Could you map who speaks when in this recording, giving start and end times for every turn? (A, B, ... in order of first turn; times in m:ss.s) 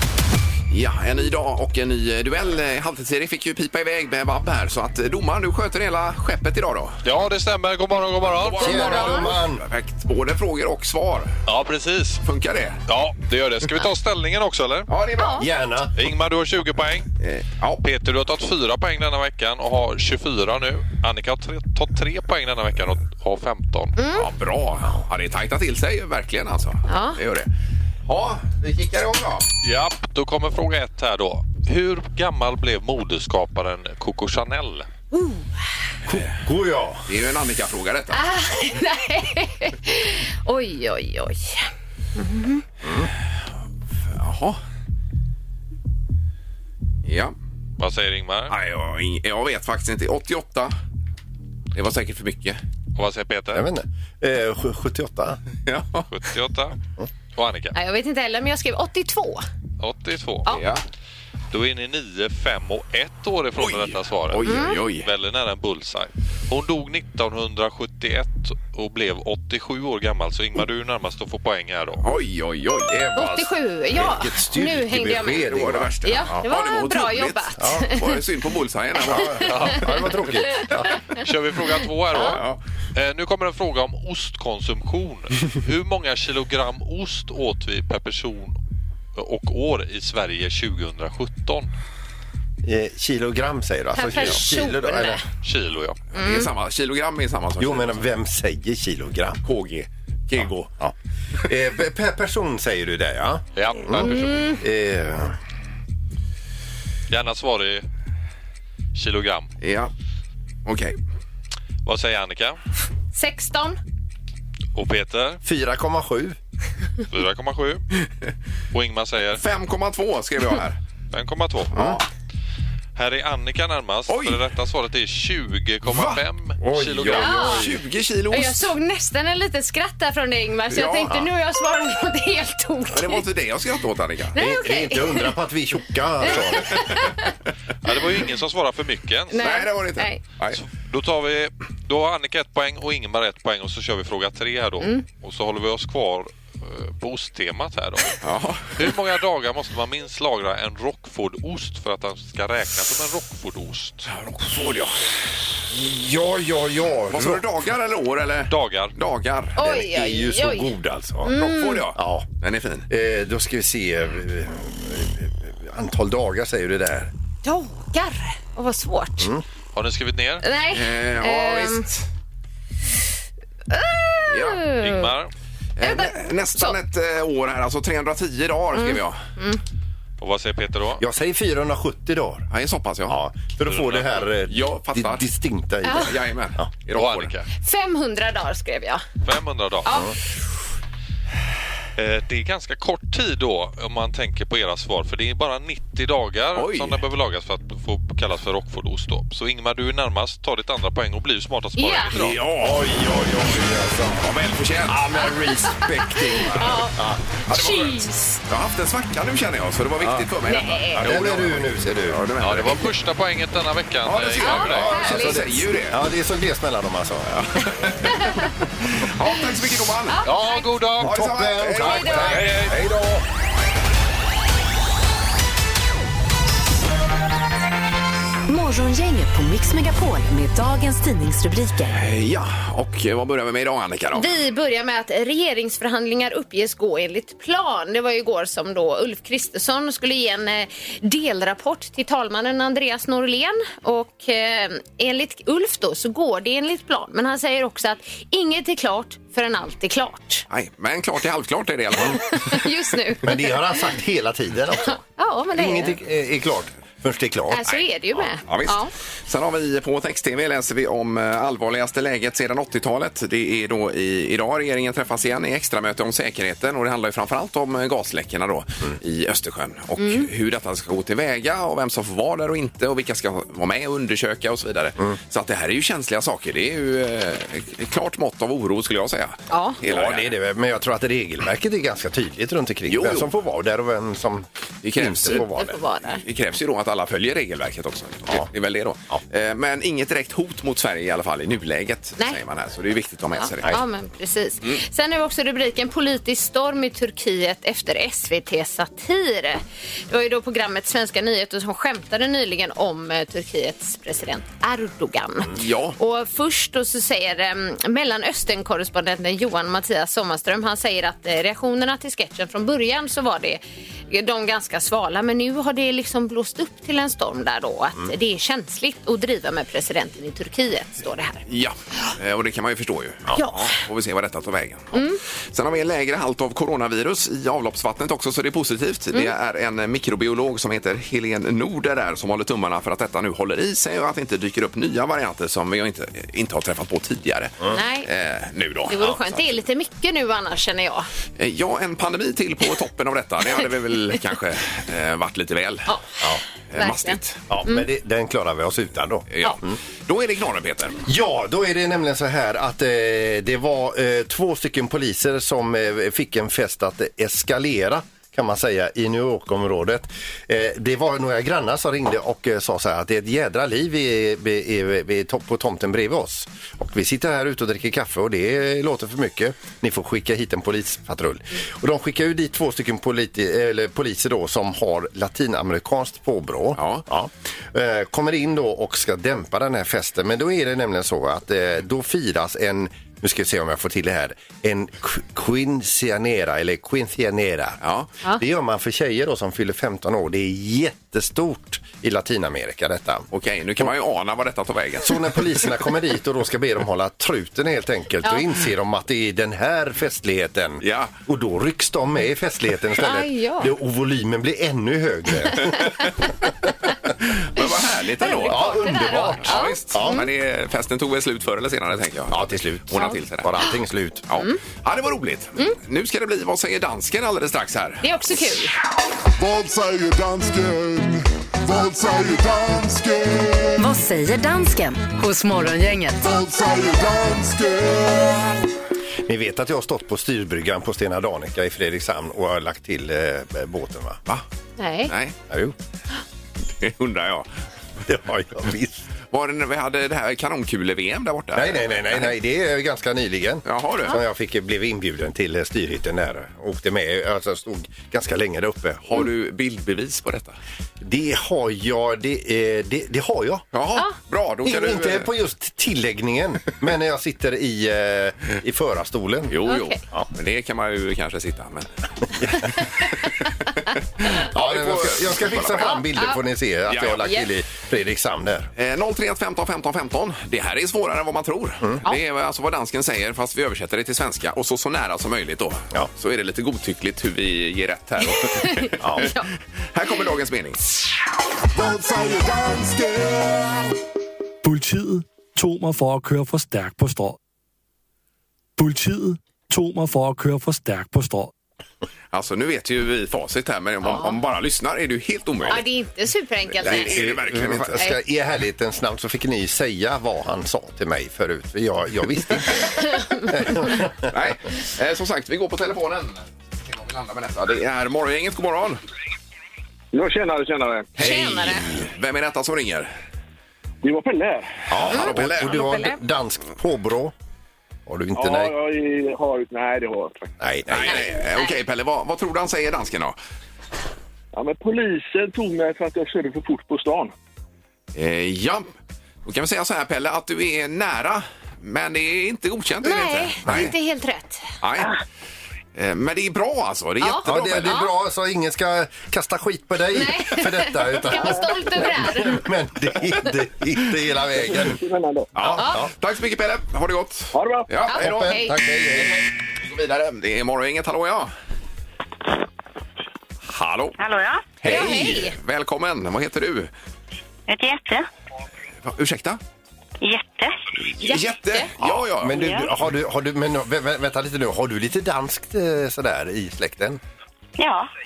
0:00.7-0:07.0 A
0:07.0-0:08.8 B
0:08.2-0:11.4 A
0:08.6-0:09.6 C
0:08.6-0:09.3 D
0:11.5-0:12.2 B
0:12.2-0:12.8 A
0:12.9-0:14.9 B
0:14.9-0:15.4 A
0:15.2-0:15.5 D
0:15.4-0:15.9 C
0:16.0-0:17.1 B
0:17.2-0:17.8 A
0:17.8-0:24.0 B
0:24.0-0:24.3 D
0:24.2-0:27.5 A
0:26.9-0:27.2 D
0:28.1-0:29.5 A
0:29.6-0:34.9 B
0:35.1-0:35.5 D
0:36.1-0:36.3 A
0:36.1-0:37.1 C
0:37.1-0:38.2 A
0:38.1-0:42.6 D
0:42.8-0:43.1 C
0:44.1-0:44.6 A
0:47.0-0:47.4 A
0:47.8-0:48.6 B
0:48.5-0:50.7 A
0:51.7-0:52.6 A
0:53.0-0:53.7 B
0:53.5-0:55.4 C
0:55.7-0:56.1 A
0:56.1-0:56.8 B
0:57.4-0:57.8 B
0:57.7-0:59.4 D
0:59.8-1:00.5 B
1:00.5-1:00.8 A
1:01.5-1:12.1 B
1:03.6-1:05.1 A
1:04.5-1:04.8 D
1:12.0-1:13.5 A
1:13.2-1:15.5 D
1:14.0-1:16.4 C
1:15.4-1:19.8 A
1:16.0-1:18.0 D
1:17.6-1:17.9 C
1:19.1-1:20.9 C
1:21.2-1:22.4 B
1:22.2-1:22.6 A
1:23.0-1:28.6 B
1:29.2-1:31.7 B
1:32.6-1:35.2 C
1:33.9-1:35.2 D
1:35.4-1:36.0 B
1:36.1-1:38.0 A
1:36.2-1:36.5 D
1:37.6-1:39.4 C
1:39.4-1:40.7 A
1:40.4-1:45.4 C
1:43.6-1:44.6 B
1:44.0-1:44.6 D
1:47.1-1:47.9 B
1:49.0-1:49.5 B
1:49.6-1:49.9 A
1:50.6-1:51.0 A
1:51.8-1:52.6 B
1:53.1-1:53.8 D
1:54.8-1:55.4 B
1:55.4-1:56.4 C
1:57.1-1:57.8 B
1:58.7-1:59.4 B
1:59.4-2:00.8 A
2:01.1-2:01.9 B
2:01.7-2:02.0 A
2:03.0-2:07.5 B
2:04.1-2:04.4 A
2:05.9-2:06.2 A
2:06.6-2:07.8 C
2:07.0-2:08.7 A
2:07.2-2:07.6 D
2:08.3-2:13.2 D
2:10.7-2:11.2 A
2:12.9-2:14.4 A
2:14.4-2:16.8 C
2:14.4-2:15.3 D
2:16.3-2:17.3 D
2:16.3-2:16.9 A
2:17.8-2:19.4 B
2:19.3-2:20.2 D
2:19.4-2:20.6 A
2:20.5-2:28.2 B
2:28.2-2:28.8 A
2:28.8-2:34.1 B
2:34.1-2:35.0 A
2:35.7-2:37.5 C
2:37.1-2:39.6 A
2:38.5-2:38.9 B
2:39.6-2:41.9 D
2:39.6-2:42.3 C
2:41.3-2:42.9 A
2:42.9-2:47.1 C
2:47.4-2:49.3 D
2:49.7-2:50.4 B
2:50.4-2:51.9 D
2:50.7-2:52.1 A
2:53.7-2:55.1 D
2:54.3-2:54.7 A
2:54.8-2:55.3 B
2:55.8-2:59.2 A
2:55.8-2:56.8 D
2:58.8-2:59.6 D
3:00.2-3:01.0 B
3:01.0-3:02.5 C
3:02.5-3:05.3 A
3:03.1-3:06.7 C
3:05.8-3:06.1 D
3:06.0-3:07.3 A
3:06.9-3:07.5 B
3:07.6-3:09.0 D
3:09.2-3:09.9 B
3:09.8-3:10.1 D
3:12.0-3:22.5 B
3:16.6-3:17.0 A
3:21.8-3:22.2 D
3:22.1-3:22.9 A
3:22.5-3:24.3 C
3:24.2-3:25.2 A
3:24.9-3:27.2 C
3:25.6-3:28.3 D
3:27.5-3:32.9 A
3:30.0-3:30.3 C
3:30.5-3:31.1 D
3:31.0-3:32.2 C
3:32.4-3:35.0 B
3:34.0-3:36.0 A
3:34.4-3:35.6 D
3:34.7-3:37.4 C
3:37.3-3:40.2 A
3:38.1-3:38.5 D
3:40.1-3:40.8 D
3:40.2-3:41.1 B
3:41.0-3:42.6 A
3:41.0-3:43.2 C
3:41.9-3:42.4 D
3:42.4-3:42.8 B
3:48.5-3:52.0 E
3:51.9-3:54.3 A
3:54.1-4:10.5 D
4:10.5-4:12.6 A
4:12.0-4:13.9 D
4:13.2-4:15.0 C
4:14.8-4:16.0 D
4:15.5-4:17.7 C
4:17.5-4:18.9 D
4:17.7-4:40.3 A
4:30.0-4:30.3 D
4:39.5-4:39.8 D
4:39.8-4:45.8 C
4:42.9-4:43.3 A
4:44.8-4:45.5 A
4:45.3-4:46.2 D
4:46.1-4:53.8 A
4:53.4-5:21.5 D
5:05.5-5:06.0 A
5:21.5-5:39.4 A
5:23.4-5:23.6 D
5:24.9-5:25.2 D
5:37.7-5:38.1 D
5:38.9-5:41.1 D
5:41.4-5:46.0 A
5:45.9-5:46.2 D
5:46.7-5:47.4 A
5:46.8-5:47.9 D
5:47.5-5:49.8 C
5:49.3-5:51.1 A
5:51.1-6:27.8 C
6:16.8-6:17.0 A
6:27.8-6:28.1 A
6:28.3-6:33.3 C
6:33.3-6:35.4 A
6:35.0-6:46.1 C
6:40.8-6:41.1 A
6:43.0-6:43.7 D
6:47.5-6:53.6 A
6:48.2-6:50.3 D
6:48.3-6:50.2 C
6:52.3-6:54.2 C
6:54.3-6:58.4 A
6:58.0-6:58.8 D
6:59.4-7:03.8 F
7:03.8-7:06.2 E
7:06.2-7:08.6 F
7:09.3-7:14.2 C
7:14.8-7:15.1 D
7:15.1-7:15.4 A
7:15.5-7:15.8 C
7:16.8-7:17.5 A
7:18.1-7:19.1 C
7:19.3-7:22.3 A
7:21.6-7:29.2 C
7:23.7-7:24.2 A
7:29.1-7:30.6 A
7:31.0-7:33.6 C
7:33.7-7:35.3 A
7:34.6-7:40.3 C
7:39.5-7:41.9 A
7:39.7-7:40.0 D
7:44.2-7:46.0 A
7:44.5-7:48.7 C
7:45.8-7:46.4 D
7:46.9-7:47.4 A
7:48.8-7:59.4 A
7:58.3-7:59.5 D
7:59.0-7:59.3 C
7:59.9-8:00.8 A
8:01.7-8:03.8 F
8:04.6-8:07.4 G
8:08.8-8:11.5 G
8:12.3-8:15.8 A
8:14.0-8:14.4 D
8:15.7-8:17.4 D
8:16.8-8:18.0 A
8:16.8-8:24.4 C
8:23.2-8:23.5 D
8:24.3-8:29.0 A
8:30.1-8:31.1 H
8:31.2-8:31.9 D
8:31.2-8:33.1 A
8:31.2-8:32.1 C
8:34.0-8:34.9 H
8:34.9-8:37.3 C
8:35.0-8:35.9 A
8:35.1-8:36.2 D
8:38.1-8:38.7 C
8:38.4-8:40.5 H
8:40.6-8:41.3 C
8:40.9-8:43.4 A
8:41.1-8:41.8 D
8:44.5-8:47.3 H
8:48.1-8:48.9 A
8:49.4-8:53.9 A
8:53.0-8:54.7 D
8:54.8-8:55.2 A
8:56.0-8:58.0 A
8:57.2-8:58.1 D
8:57.4-9:05.0 C
9:00.1-9:02.6 D
9:04.6-9:05.5 H
9:05.6-9:08.4 A
9:05.6-9:06.1 C
9:05.8-9:06.0 D
9:07.5-9:07.9 H
9:08.1-9:08.8 D
9:08.1-9:09.4 C
9:09.2-9:11.5 A
9:13.6-9:14.2 A
9:14.2-9:14.8 I
9:14.8-9:16.9 A
9:14.8-9:15.6 D
9:17.7-9:18.3 I
9:19.0-9:19.6 A
9:20.2-9:20.8 I
9:21.1-9:22.7 A
9:21.2-9:21.9 D
9:22.0-9:27.2 C
9:22.5-9:22.9 I
9:27.8-9:28.1 I